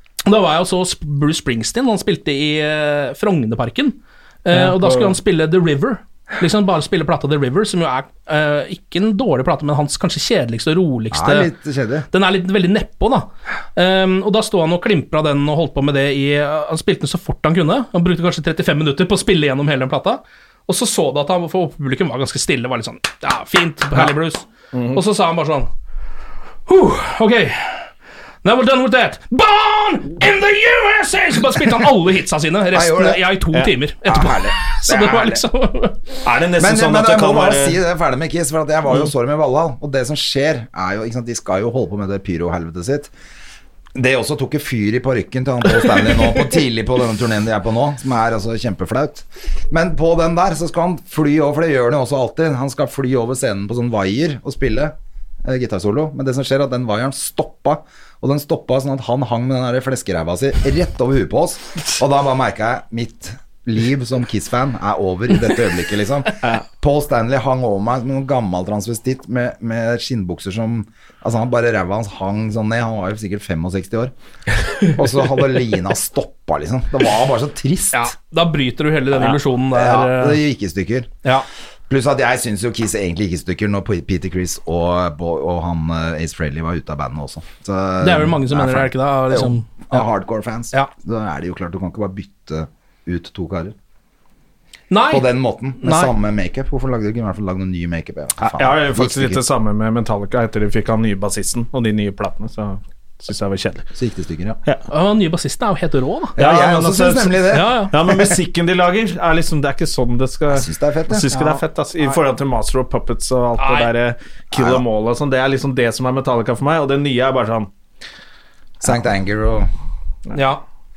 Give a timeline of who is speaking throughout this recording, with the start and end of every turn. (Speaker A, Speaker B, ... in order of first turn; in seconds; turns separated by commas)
Speaker A: 0.2-11.5, Speaker B: 11.1-12.1, Speaker A: 12.1-25.7, Speaker C: 24.7-25.0, Speaker A: 26.7-27.9, Speaker A: 28.4-36.0, Speaker B: 32.7-33.3, Speaker B: 34.0-35.4, Speaker C: 36.2-37.8, Speaker B: 36.6-43.1, Speaker B: 43.9-74.1, Speaker B: 74.9-78.1, Speaker A: 77.9-80.4, Speaker B: 79.2-81.2, Speaker B: 81.9-93.7, Speaker A: 88.0-90.0, Speaker A: 94.9-96.1, Speaker B: 95.1-99.4, Speaker C: 98.4-103.9, Speaker B: 103.9-104.6, Speaker A: 104.9-106.4, Speaker B: 106.4-108.3, Speaker C: 106.4-117.7, Speaker A: 107.5-107.9, Speaker B: 110.5-111.4, Speaker A: 111.3-112.2, Speaker A: 113.6-113.9, Speaker B: 114.5-114.8, Speaker B: 118.8-119.7, Speaker A: 120.3-120.6